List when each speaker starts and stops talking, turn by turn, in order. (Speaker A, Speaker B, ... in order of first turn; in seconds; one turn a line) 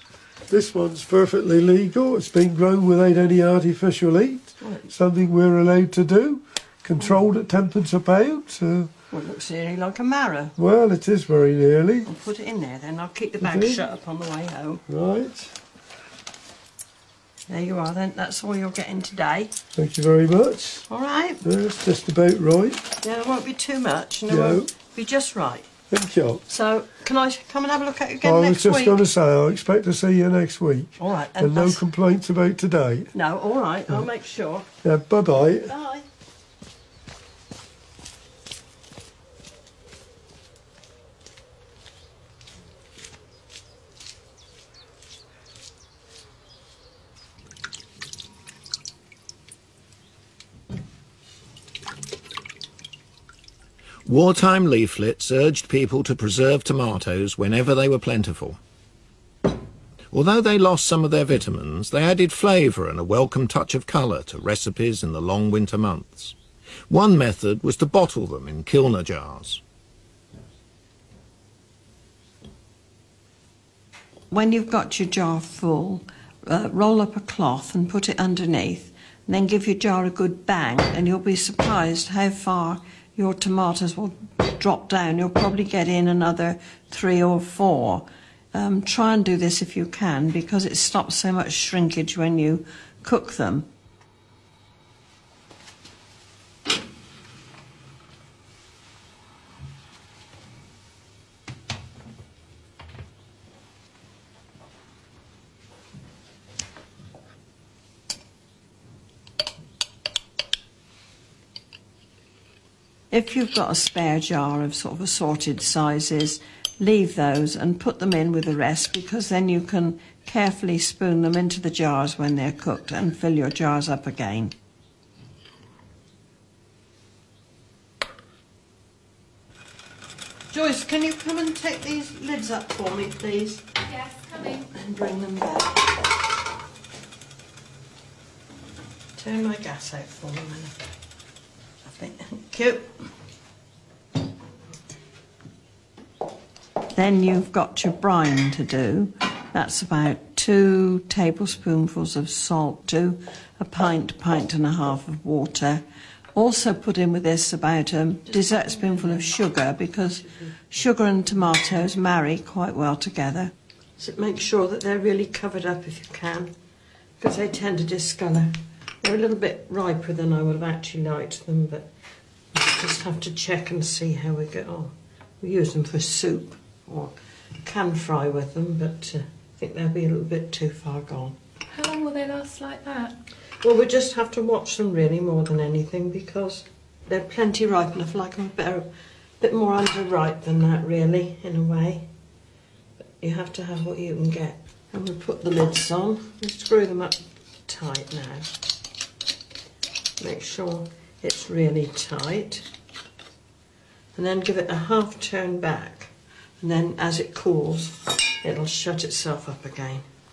Speaker A: 0.5-8.9
Speaker B: 4.6-4.9
Speaker B: 9.1-10.5
Speaker A: 10.6-12.1
Speaker B: 12.1-14.8
Speaker A: 13.4-13.8
Speaker A: 14.9-15.6
Speaker B: 17.5-19.6
Speaker A: 19.8-20.9
Speaker B: 20.9-21.4
Speaker A: 21.4-22.9
Speaker B: 23.0-25.7
Speaker A: 24.3-24.7
Speaker A: 25.9-26.4
Speaker B: 26.5-29.0
Speaker A: 28.2-33.1
Speaker B: 31.0-31.8
Speaker B: 33.1-34.7
Speaker A: 34.8-35.7
Speaker B: 35.6-36.1
Speaker C: 54.0-58.6
Speaker C: 60.1-66.3
Speaker C: 66.9-69.6
Speaker B: 74.3-93.7
Speaker B: 113.1-124.5
Speaker B: 130.5-133.7
Speaker D: 133.9-134.7
Speaker B: 134.7-136.0
Speaker B: 139.2-140.8
Speaker B: 141.8-142.9
Speaker B: 146.9-155.8
Speaker B: 156.3-166.6
Speaker B: 167.2-171.9
Speaker B: 172.5-181.4
Speaker D: 181.7-183.2
Speaker B: 183.6-192.1
Speaker B: 193.2-198.5
Speaker B: 200.2-202.7
Speaker B: 204.2-210.1